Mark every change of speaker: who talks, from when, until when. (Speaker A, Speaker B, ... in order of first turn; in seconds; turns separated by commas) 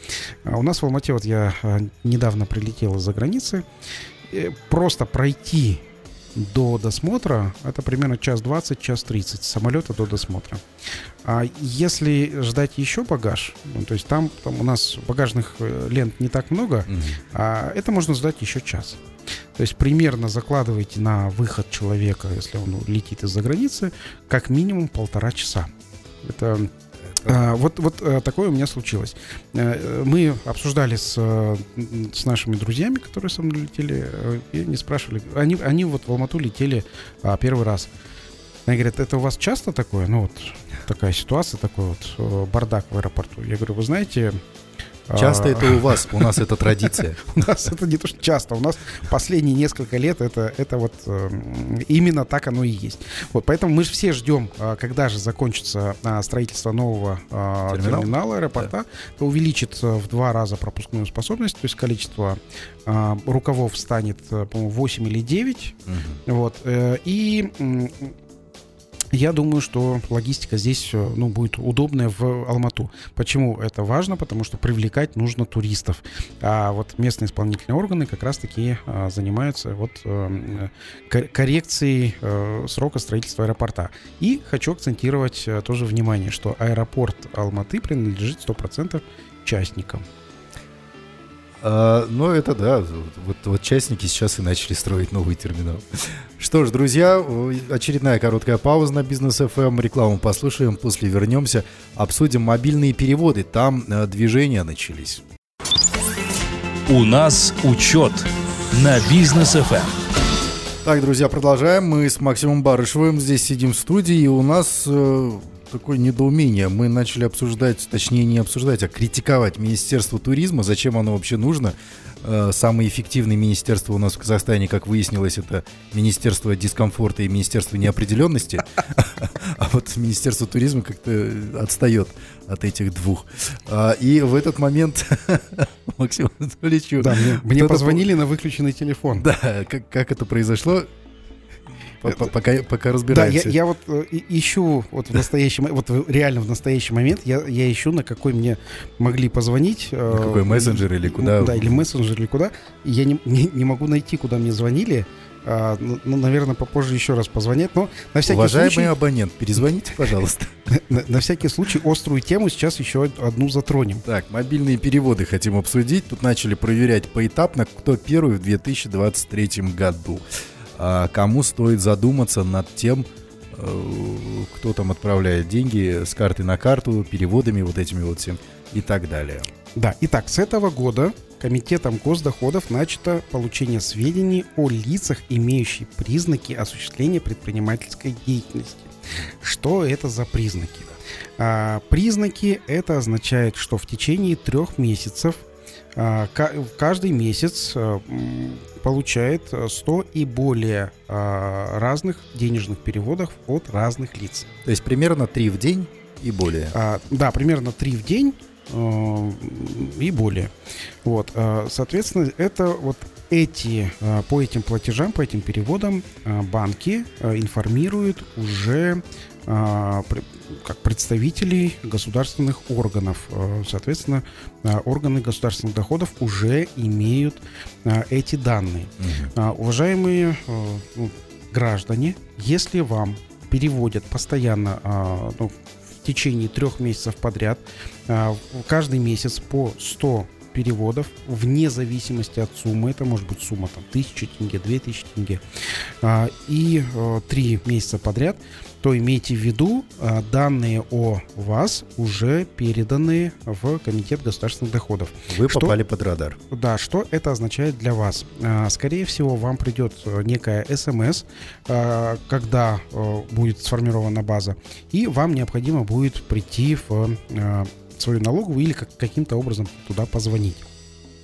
Speaker A: 0.4-3.6, Speaker A: 4.3-5.8, Speaker A: 6.3-10.6, Speaker A: 11.2-19.0, Speaker B: 16.9-17.2, Speaker A: 19.6-25.7, Speaker A: 26.2-26.7, Speaker A: 27.2-37.9, Speaker A: 38.7-44.4, Speaker A: 45.1-46.3, Speaker B: 45.1-47.4, Speaker A: 46.8-68.1, Speaker B: 57.7-58.6, Speaker B: 65.9-66.2, Speaker A: 69.1-90.0, Speaker B: 91.6-105.2, Speaker C: 106.9-110.0, Speaker B: 110.8-138.1, Speaker A: 137.0-139.3, Speaker B: 139.2-140.9, Speaker B: 142.0-143.6, Speaker A: 143.1-158.9, Speaker B: 150.1-151.8, Speaker B: 158.2-160.5, Speaker A: 160.7-164.0, Speaker B: 164.0-170.2, Speaker B: 170.8-179.5, Speaker A: 179.7-195.4, Speaker A: 195.9-204.5, Speaker B: 204.6-206.7, Speaker A: 206.7-210.5, Speaker A: 211.0-245.4, Speaker B: 229.0-229.3, Speaker A: 246.0-255.7, Speaker B: 255.3-256.4, Speaker A: 256.5-270.6